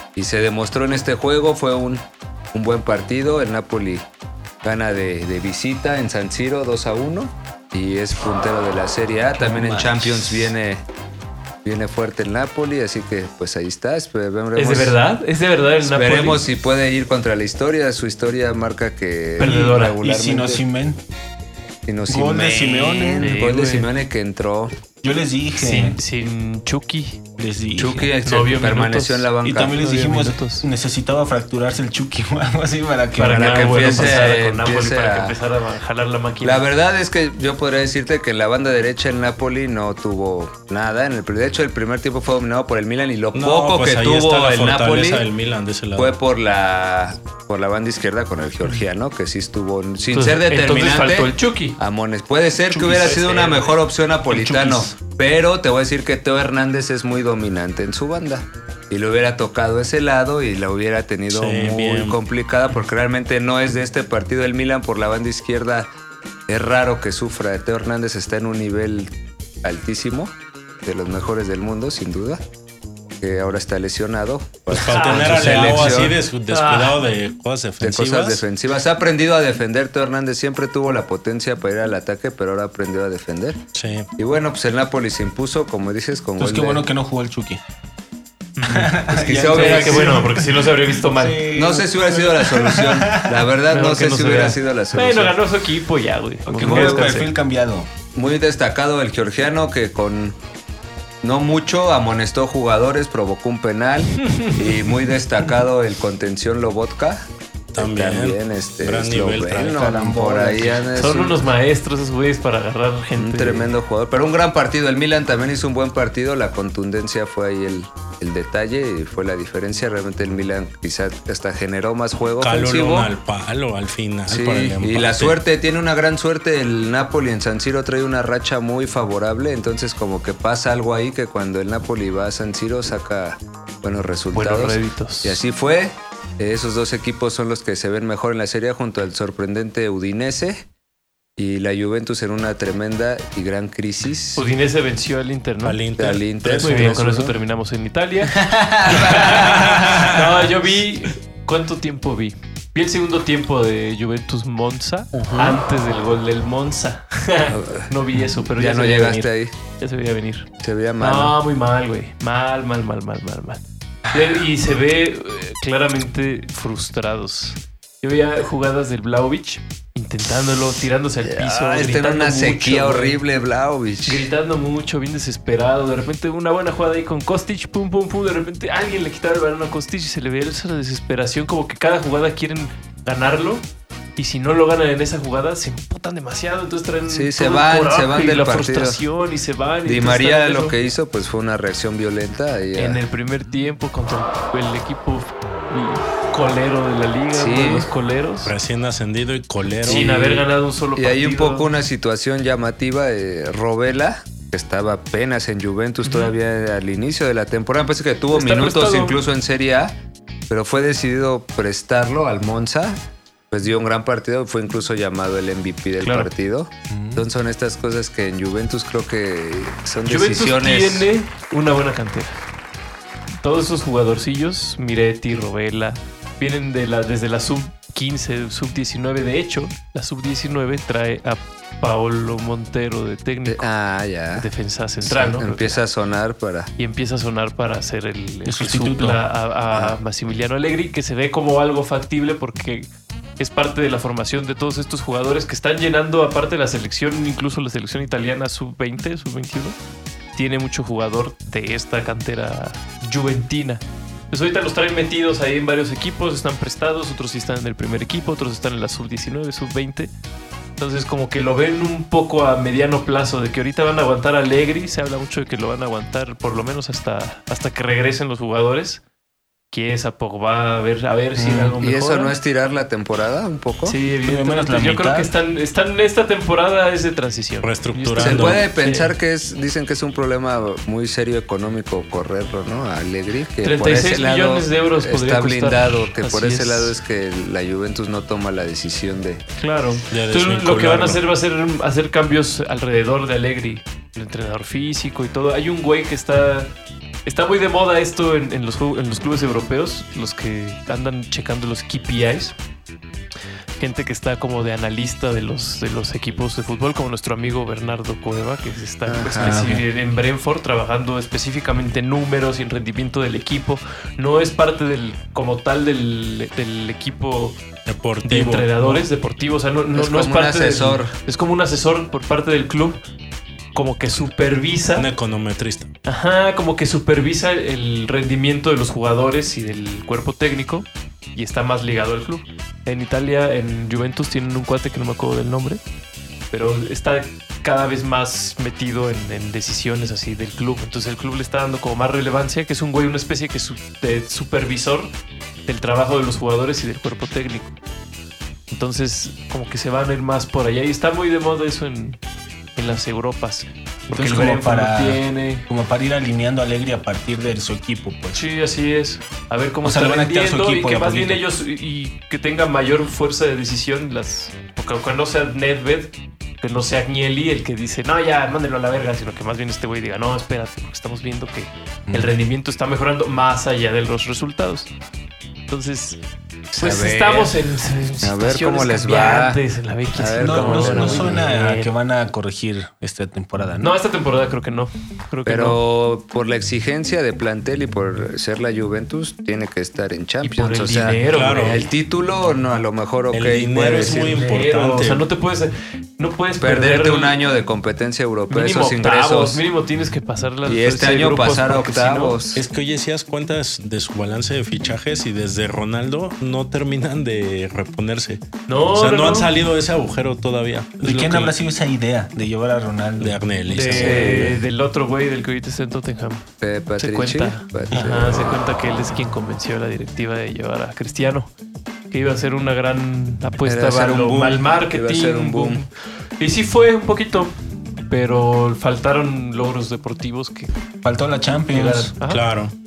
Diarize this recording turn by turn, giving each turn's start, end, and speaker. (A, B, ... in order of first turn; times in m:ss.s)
0:00.2-0:04.1 A
0:04.6-0:10.8 A
0:09.4-0:10.5 B
0:11.6-0:15.0 A
0:14.6-0:16.4 C
0:15.8-0:20.6 A
0:19.4-0:20.0 C
0:19.4-0:21.0 B
0:21.9-0:24.8 A
0:22.1-0:23.4 B
0:23.2-0:23.9 C
0:25.0-0:26.0 B
0:25.6-0:27.2 C
0:27.4-0:28.1 B
0:27.8-0:29.8 A
0:28.2-0:30.7 C
0:29.4-0:34.3 B
0:33.2-0:36.7 C
0:33.3-0:35.4 A
0:36.4-0:45.2 A
0:43.3-0:46.2 D
0:46.0-1:05.9 A
0:50.1-0:51.8 C
0:52.7-0:53.1 B
0:52.8-0:53.8 C
0:54.3-0:55.0 B
1:01.3-1:02.2 D
1:06.5-1:12.4 A
1:13.2-1:16.2 A
1:14.7-1:18.4 D
1:14.8-1:17.0 C
1:17.8-1:23.6 A
1:23.7-1:24.1 D
1:24.2-1:26.8 A
1:26.4-1:27.6 B
1:28.6-1:31.5 C
1:28.6-1:33.5 B
1:29.1-1:30.3 A
1:31.5-1:35.4 A
1:33.7-1:37.2 C
1:36.5-1:37.9 B
1:36.6-1:37.3 A
1:38.2-1:40.4 A
1:41.2-1:51.4 A
1:44.2-1:44.9 C
1:47.7-1:49.8 D
1:49.7-1:50.9 B
1:50.9-1:53.7 C
1:53.2-2:03.1 A
2:02.4-2:05.4 D
2:04.3-2:20.6 A
2:14.3-2:15.4 C
2:21.4-2:24.4 A
2:24.4-2:25.8 C
2:25.6-2:27.0 D
2:26.0-2:27.3 A
2:26.5-2:53.2 C
2:28.4-2:30.0 A
2:29.3-2:30.2 D
2:35.2-2:35.6 A
2:37.5-2:37.9 A
2:38.5-2:39.5 A
2:40.6-2:41.4 A
2:51.2-2:54.3 A
2:54.0-3:03.6 C
3:04.2-3:10.8 C
3:07.1-3:09.0 A
3:09.8-3:13.0 A
3:12.8-3:18.5 C
3:17.3-3:17.9 A
3:18.4-3:20.1 D
3:19.8-3:21.7 C
3:19.8-3:30.0 A
3:26.0-3:26.3 C
3:28.3-3:29.2 C
3:30.5-3:41.1 A
3:36.0-3:36.3 C
3:36.9-3:37.3 B
3:40.0-3:42.4 C
3:43.4-3:53.7 C
3:53.4-3:54.5 A
3:54.4-3:55.8 C
3:55.0-3:56.7 A
3:56.8-4:09.8 C
3:58.4-3:59.2 B
3:59.7-4:00.0 A
4:10.4-4:20.1 C
4:20.8-4:29.0 C
4:29.7-4:32.3 C
4:31.4-4:31.8 B
4:31.8-4:34.0 A
4:33.8-4:39.1 C
4:34.2-4:35.3 B
4:37.6-4:38.6 D
4:38.2-4:49.4 A
4:43.6-4:47.0 C
4:49.6-4:56.7 C
4:50.1-4:51.2 D
4:57.2-5:02.6 C
5:03.8-5:17.6 C
5:09.1-5:09.6 A
5:09.4-5:09.8 B
5:17.9-5:19.1 D
5:18.2-5:23.0 C
5:19.9-5:21.2 A
5:23.7-5:25.1 C
5:25.0-5:25.9 D
5:26.1-5:35.8 C
5:36.5-5:45.1 C
5:45.7-5:47.8 C
5:48.7-5:52.2 C
5:52.8-5:55.7 C
5:54.1-5:58.4 B
5:58.3-6:14.9 C
5:59.8-6:01.4 B
6:15.7-6:16.2 C
6:16.7-6:17.6 A
6:16.8-6:21.9 C
6:18.2-6:19.6 A
6:20.1-6:21.4 A
6:20.4-6:23.9 B
6:23.8-6:25.8 C
6:25.4-6:34.4 A
6:30.4-6:31.9 C
6:31.3-6:31.8 D
6:33.3-6:35.2 D
6:34.0-6:37.4 C
6:36.6-6:39.6 A
6:38.5-6:42.4 C
6:40.7-6:42.6 A
6:42.6-6:51.5 D
6:48.7-6:49.5 C
6:51.0-6:53.4 B
6:53.2-6:54.6 D
6:53.7-6:56.5 C
6:53.9-6:54.5 A
6:56.6-6:58.6 A
6:57.0-7:01.5 C
7:02.1-7:07.5 C
7:03.6-7:05.8 A
7:08.1-7:10.7 C
7:11.0-7:12.1 B
7:11.7-7:12.4 C
7:12.3-7:12.7 D